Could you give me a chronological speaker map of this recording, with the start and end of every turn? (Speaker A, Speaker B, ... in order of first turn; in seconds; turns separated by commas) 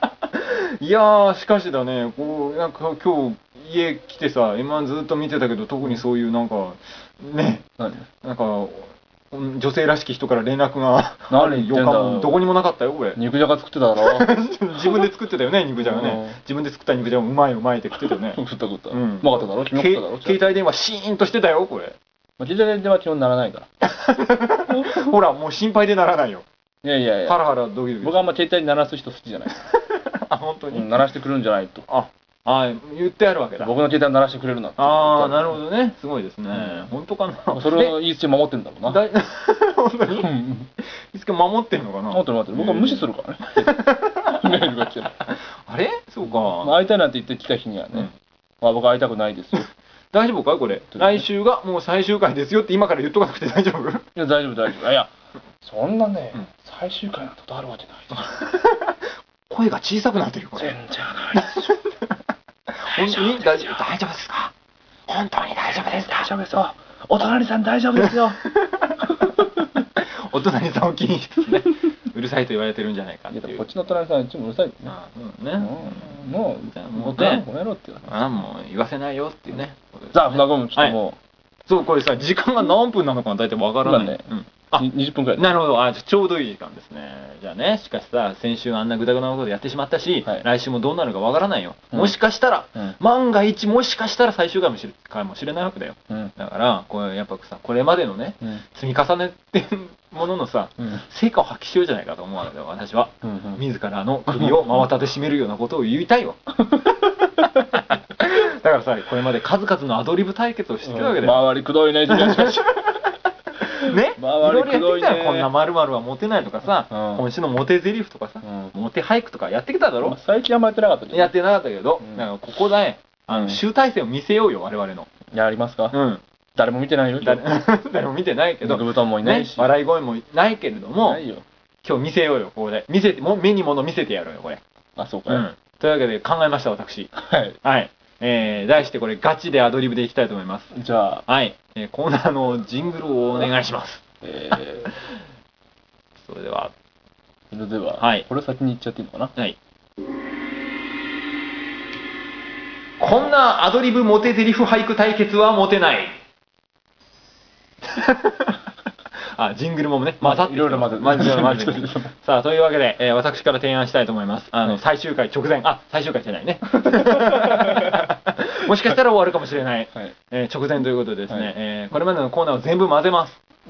Speaker A: 0.3-7.7, Speaker B: 7.8-8.1, Speaker A: 8.2-13.2, Speaker B: 11.3-12.4, Speaker B: 13.2-14.3, Speaker A: 14.0-21.9, Speaker B: 15.8-16.4, Speaker B: 18.0-20.5, Speaker B: 22.4-23.7, Speaker A: 23.8-26.4, Speaker B: 24.7-25.1, Speaker B: 26.8-27.4, Speaker A: 27.2-28.2, Speaker B: 28.0-29.6, Speaker A: 29.7-30.9, Speaker B: 30.7-31.8, Speaker A: 31.9-33.7, Speaker B: 33.6-35.5, Speaker A: 34.8-38.0, Speaker B: 36.5-36.9, Speaker B: 37.5-39.0, Speaker A: 38.9-44.6, Speaker B: 40.1-40.7, Speaker B: 42.1-45.2, Speaker A: 45.3-46.7, Speaker B: 46.3-48.1, Speaker B: 48.6-49.7, Speaker A: 50.1-54.1, Speaker B: 50.9-51.2, Speaker B: 54.1-55.1, Speaker B: 55.6-58.3, Speaker A: 58.1-59.0, Speaker A: 59.5-60.8, Speaker B: 60.6-61.8, Speaker A: 61.3-61.8, Speaker A: 62.7-64.5, Speaker B: 62.9-63.8, Speaker A: 65.1-66.3, Speaker B: 65.8-68.4, Speaker A: 68.0-73.6, Speaker B: 69.0-69.7, Speaker B: 73.3-74.9, Speaker A: 74.9-77.5, Speaker B: 75.6-78.1, Speaker A: 78.0-81.0, Speaker B: 80.1-81.2, Speaker A: 81.7-106.4, Speaker B: 83.8-84.2, Speaker B: 84.8-85.5, Speaker B: 103.2-103.6, Speaker B: 104.3-104.7, Speaker B: 106.6-107.6, Speaker A: 107.6-111.5, Speaker B: 110.8-113.0, Speaker A: 112.1-113.0, Speaker A: 113.6-120.2, Speaker B: 113.8-115.5, Speaker B: 116.9-117.2, Speaker B: 118.4-118.7, Speaker B: 120.0-121.3, Speaker A: 121.1-125.1, Speaker B: 122.0-122.3, Speaker B: 123.3-123.6, Speaker B: 125.3-126.0, Speaker A: 125.9-126.2, Speaker B: 126.5-127.4, Speaker A: 127.2-131.2, Speaker B: 128.6-129.7, Speaker B: 131.0-131.4, Speaker A: 131.8-134.6, Speaker B: 134.9-135.4, Speaker A: 135.3-140.8, Speaker B: 137.1-137.6, Speaker B: 140.7-141.2, Speaker A: 141.3-144.0, Speaker B: 144.2-144.9, Speaker A: 146.2-146.7, Speaker B: 147.5-149.3, Speaker A: 148.0-148.2, Speaker A: 153.0-156.1, Speaker A: 157.8-158.6, Speaker A: 159.3-173.4, Speaker B: 160.2-162.1, Speaker B: 166.9-168.1